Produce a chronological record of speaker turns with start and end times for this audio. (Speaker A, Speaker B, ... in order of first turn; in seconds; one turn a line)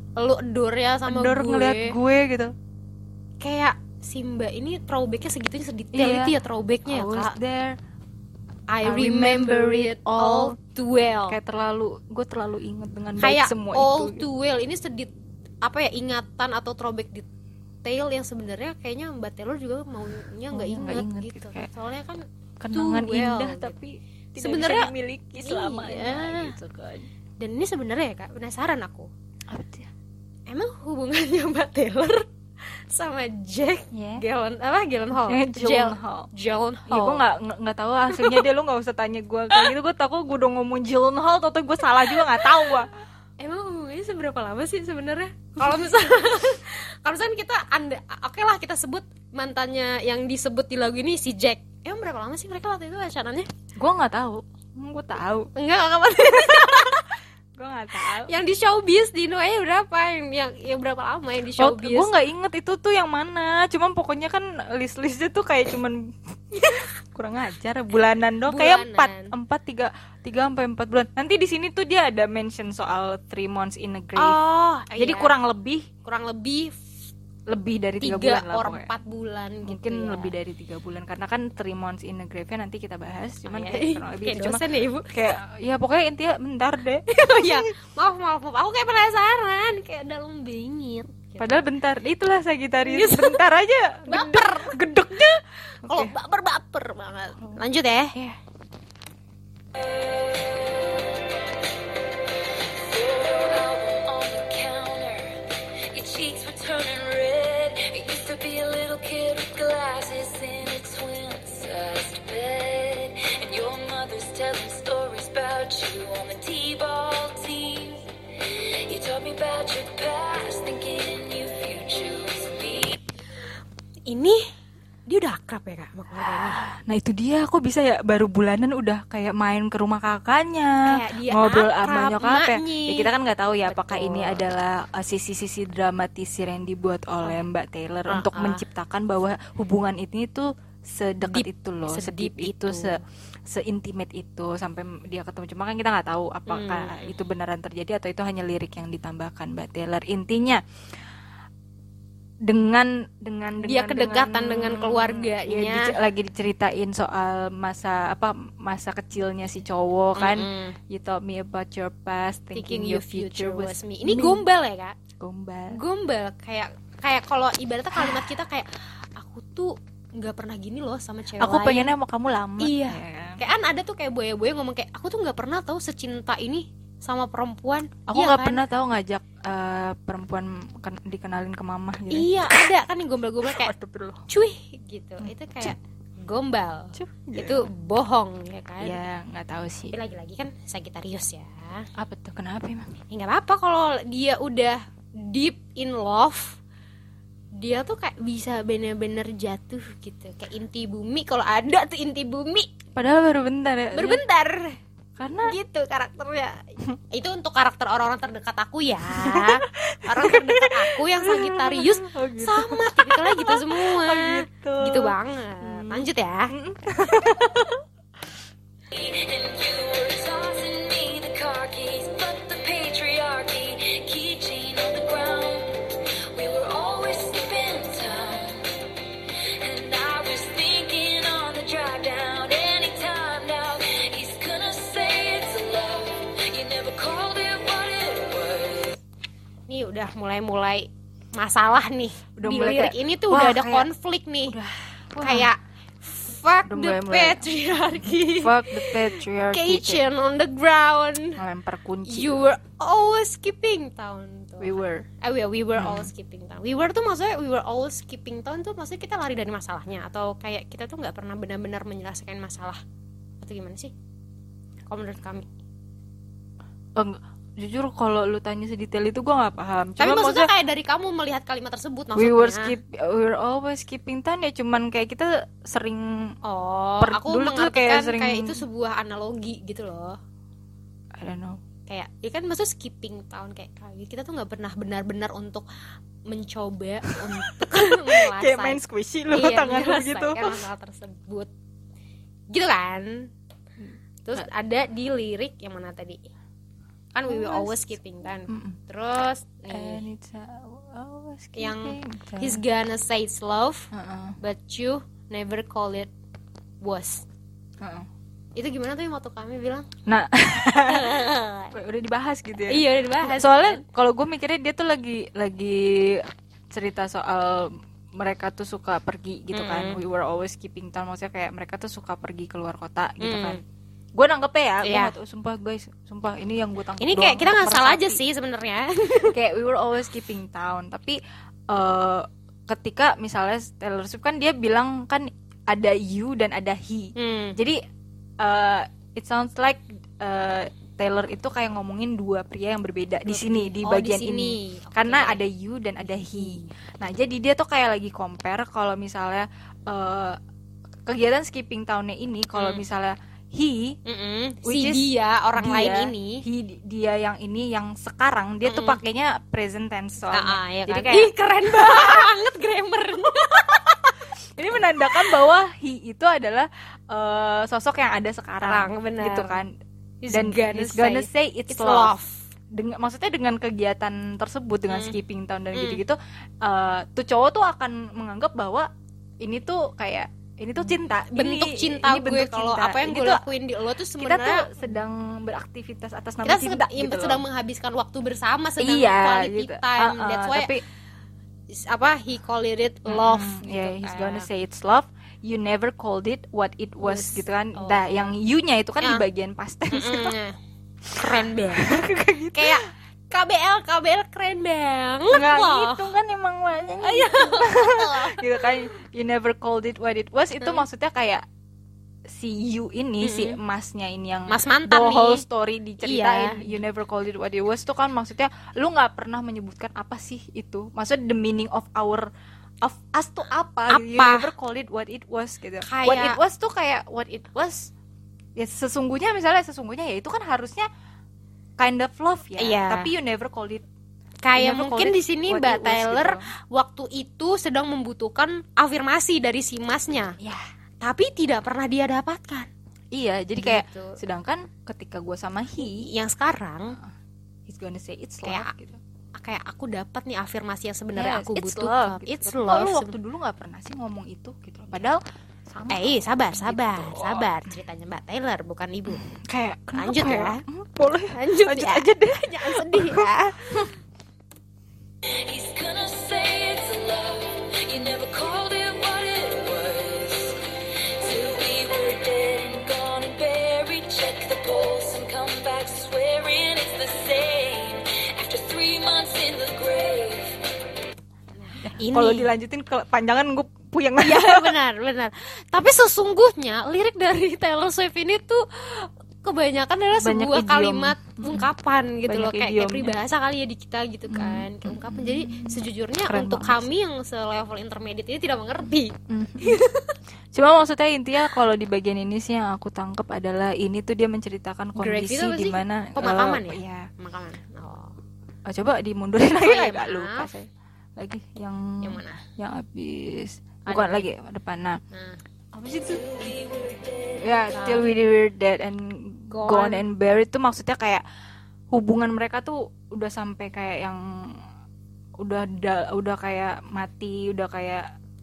Speaker A: 0.2-1.9
Speaker B: 1.1-2.5
Speaker A: 3.4-7.4
Speaker B: 5.9-6.3
Speaker B: 6.9-7.8
Speaker A: 8.7-11.4
Speaker B: 8.8-10.6
Speaker B: 11.3-14.3
Speaker A: 13.2-15.1
Speaker A: 15.6-17.3
Speaker A: 17.8-23.8
Speaker B: 20.5-21.7
Speaker B: 22.6-27.1
Speaker A: 24.4-26.6
Speaker A: 27.4-29.1
Speaker B: 29.5-29.9
Speaker A: 30.5-37.2
Speaker B: 33.9-34.2
Speaker B: 35.2-36.3
Speaker B: 36.9-42.9
Speaker A: 38.1-38.4
Speaker A: 42.2-42.6
Speaker A: 43.4-53.5
Speaker B: 53.8-55.5
Speaker A: 55.5-57.1
Speaker B: 56.2-57.0
Speaker B: 57.6-58.3
Speaker A: 58.0-62.1
Speaker B: 61.6-74.4
Speaker A: 68.5-69.3
Speaker A: 74.2-75.3
Speaker B: 75.0-75.9
Speaker A: 76.0-76.8
Speaker B: 77.5-78.9
Speaker A: 78.0-80.3
Speaker B: 79.7-87.7
Speaker A: 83.5-85.1
Speaker A: 87.1-91.6
Speaker B: 91.4-96.1
Speaker A: 92.8-93.4
Speaker A: 94.1-95.0
Speaker A: 95.8-98.2
Speaker C: 99.8-101.0
Speaker C: 102.8-123.0
Speaker A: 124.1-124.4
Speaker A: 125.1-126.7
Speaker B: 126.2-150.6
Speaker A: 130.8-134.4
Speaker A: 138.1-138.6
Speaker A: 141.2-143.0
Speaker A: 146.5-147.2
Speaker B: 152.5-164.4
Speaker A: 153.6-155.9
Speaker A: 160.2-160.8
Speaker A: 162.5-165.0
Speaker B: 165.2-165.8
Speaker A: 165.7-171.9
Speaker B: 168.0-168.2
Speaker B: 171.4-173.4
Speaker A: 172.6-178.6
Speaker B: 178.1-182.6
Speaker A: 182.1-183.7
Speaker B: 183.4-184.2
Speaker A: 184.3-189.0
Speaker B: 185.2-185.7
Speaker B: 186.9-187.7
Speaker B: 188.8-189.9
Speaker A: 189.9-191.9
Speaker B: 192.0-193.0
Speaker A: 193.1-196.6
Speaker A: 197.6-202.7
Speaker B: 202.9-204.2
Speaker A: 203.9-204.8
Speaker B: 205.2-205.6
Speaker A: 205.4-206.6
Speaker A: 207.1-216.5
Speaker B: 209.1-217.8
Speaker C: 218.9-228.8
Speaker C: 229.6-239.0
Speaker A: 239.7-244.6
Speaker B: 242.4-243.9
Speaker B: 244.5-245.5
Speaker A: 245.2-251.4
Speaker B: 246.7-247.5
Speaker B: 248.2-250.0
Speaker B: 251.4-252.5
Speaker A: 252.1-262.8
Speaker B: 254.6-255.1
Speaker B: 255.8-256.1
Speaker A: 263.4-263.9
Speaker A: 264.9-265.5
Speaker B: 267.0-270.5
Speaker A: 270.0-272.8
Speaker B: 272.1-276.4
Speaker A: 276.4-280.2
Speaker B: 277.0-278.6
Speaker B: 281.2-281.6
Speaker A: 281.9-285.7
Speaker A: 286.3-288.8
Speaker B: 287.1-290.6
Speaker A: 289.3-291.5
Speaker A: 292.5-293.3
Speaker A: 294.2-296.2
Speaker A: 297.1-300.1
Speaker B: 297.3-297.9
Speaker B: 298.5-298.8
Speaker B: 299.7-302.6
Speaker A: 301.6-306.1
Speaker B: 303.9-304.4
Speaker A: 306.8-307.3
Speaker B: 307.8-308.1
Speaker A: 308.6-309.9
Speaker B: 310.1-323.6
Speaker A: 310.9-311.8
Speaker A: 312.7-313.9
Speaker A: 319.5-320.0
Speaker A: 323.2-323.6
Speaker B: 324.1-328.2
Speaker A: 324.8-325.1
Speaker A: 327.0-329.4
Speaker B: 329.2-331.2
Speaker B: 331.7-337.8
Speaker A: 337.2-337.6
Speaker B: 338.4-350.4
Speaker A: 343.3-345.4
Speaker A: 346.2-346.7
Speaker B: 351.1-354.0
Speaker A: 352.6-352.8
Speaker A: 354.1-356.4
Speaker B: 354.6-362.3
Speaker A: 358.7-359.0
Speaker A: 360.3-364.1
Speaker B: 364.6-369.7
Speaker A: 365.0-365.3
Speaker A: 368.6-369.6
Speaker A: 370.2-372.4
Speaker B: 370.3-372.1
Speaker B: 372.7-378.9
Speaker A: 374.9-375.2
Speaker A: 375.7-376.0
Speaker B: 379.4-383.4
Speaker A: 381.3-384.7
Speaker B: 384.2-387.4
Speaker A: 386.4-390.7
Speaker B: 388.8-390.8
Speaker A: 391.7-394.5
Speaker B: 393.1-400.4
Speaker A: 397.0-398.3
Speaker A: 399.9-400.6
Speaker B: 401.1-402.8
Speaker A: 401.2-406.1
Speaker B: 405.3-411.4
Speaker A: 407.0-408.8
Speaker A: 410.6-410.9
Speaker B: 412.3-422.3
Speaker A: 413.2-413.6
Speaker A: 414.5-415.4
Speaker A: 416.0-416.7
Speaker B: 422.8-427.9
Speaker A: 423.9-424.5
Speaker A: 425.8-426.4
Speaker B: 428.6-430.9
Speaker B: 431.8-433.9
Speaker A: 432.6-433.1
Speaker A: 434.4-440.4
Speaker B: 434.6-436.5
Speaker A: 441.0-442.7
Speaker B: 443.1-446.1
Speaker A: 443.6-444.2
Speaker A: 445.8-447.0
Speaker B: 447.7-449.0
Speaker A: 448.4-448.7
Speaker A: 449.4-453.2
Speaker B: 451.1-457.5
Speaker A: 455.9-459.2
Speaker B: 459.1-463.9
Speaker A: 459.9-460.6
Speaker A: 461.3-463.8
Speaker C: 465.3-470.6
Speaker C: 471.2-480.6
Speaker A: 481.6-482.5
Speaker B: 481.8-484.8
Speaker A: 484.2-500.1
Speaker B: 490.2-491.7
Speaker B: 492.3-493.1
Speaker B: 494.3-496.9
Speaker B: 499.3-499.8
Speaker B: 500.5-507.1
Speaker A: 505.0-508.1
Speaker B: 508.7-515.0
Speaker A: 509.6-510.5
Speaker A: 512.0-512.4
Speaker A: 513.9-514.3
Speaker A: 515.1-515.4
Speaker B: 515.7-516.3
Speaker C: 516.1-517.4
Speaker B: 517.4-521.2
Speaker A: 517.7-518.1
Speaker A: 519.5-520.1
Speaker B: 521.9-524.5
Speaker B: 525.4-528.1